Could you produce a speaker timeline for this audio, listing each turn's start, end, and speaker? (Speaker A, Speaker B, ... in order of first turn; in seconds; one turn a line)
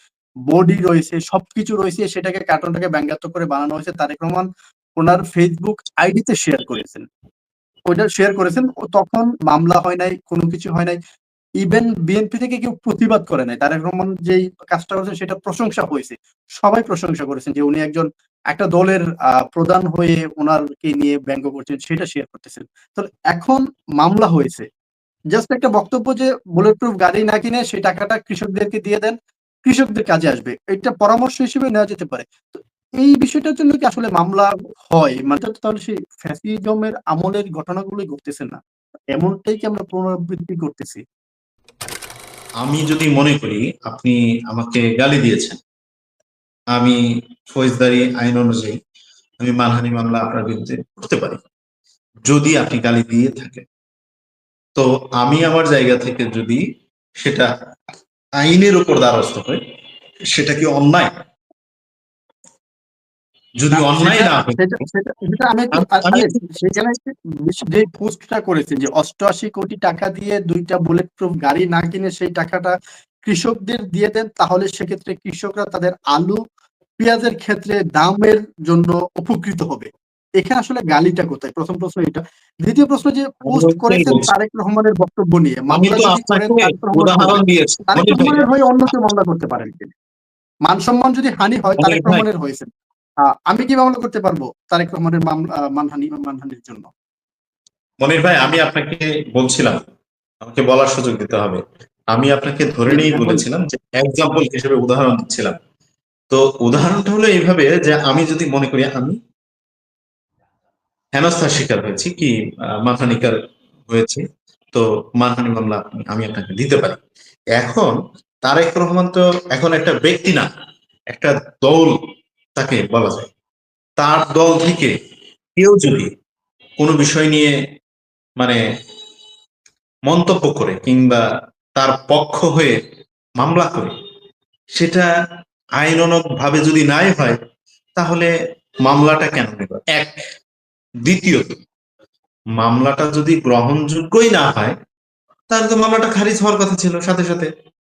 Speaker A: 0.5-7.1
Speaker A: 7.9-11.0
Speaker A: 11.6-24.7
Speaker A: 25.3-38.6
Speaker A: 39.1-41.0
Speaker B: 42.6-45.6
Speaker B: 46.7-48.8
Speaker B: 49.4-51.4
Speaker B: 52.3-53.6
Speaker B: 54.8-56.6
Speaker B: 57.2-57.5
Speaker B: 58.4-59.6
Speaker B: 60.3-61.1
Speaker B: 63.6-64.6
Speaker A: 63.7-76.4
Speaker B: 65.8-66.4
Speaker A: 77.0-87.4
Speaker B: 83.5-84.3
Speaker B: 85.7-88.5
Speaker A: 87.9-89.9
Speaker A: 90.7-92.7
Speaker B: 91.8-92.2
Speaker A: 93.2-96.9
Speaker B: 98.0-99.8
Speaker B: 100.4-101.6
Speaker B: 102.1-105.6
Speaker A: 102.9-103.4
Speaker B: 106.3-109.2
Speaker B: 111.2-113.4
Speaker B: 113.9-117.0
Speaker B: 117.6-120.5
Speaker B: 121.1-122.0
Speaker B: 122.6-123.3
Speaker B: 124.0-124.9
Speaker B: 125.6-126.1
Speaker B: 126.8-127.5
Speaker B: 130.1-131.2
Speaker B: 131.8-132.8
Speaker B: 133.4-133.9
Speaker B: 134.8-135.1
Speaker B: 135.8-137.4
Speaker B: 138.0-138.3
Speaker B: 138.8-140.2
Speaker B: 141.1-141.6
Speaker B: 142.6-144.8
Speaker B: 145.5-147.5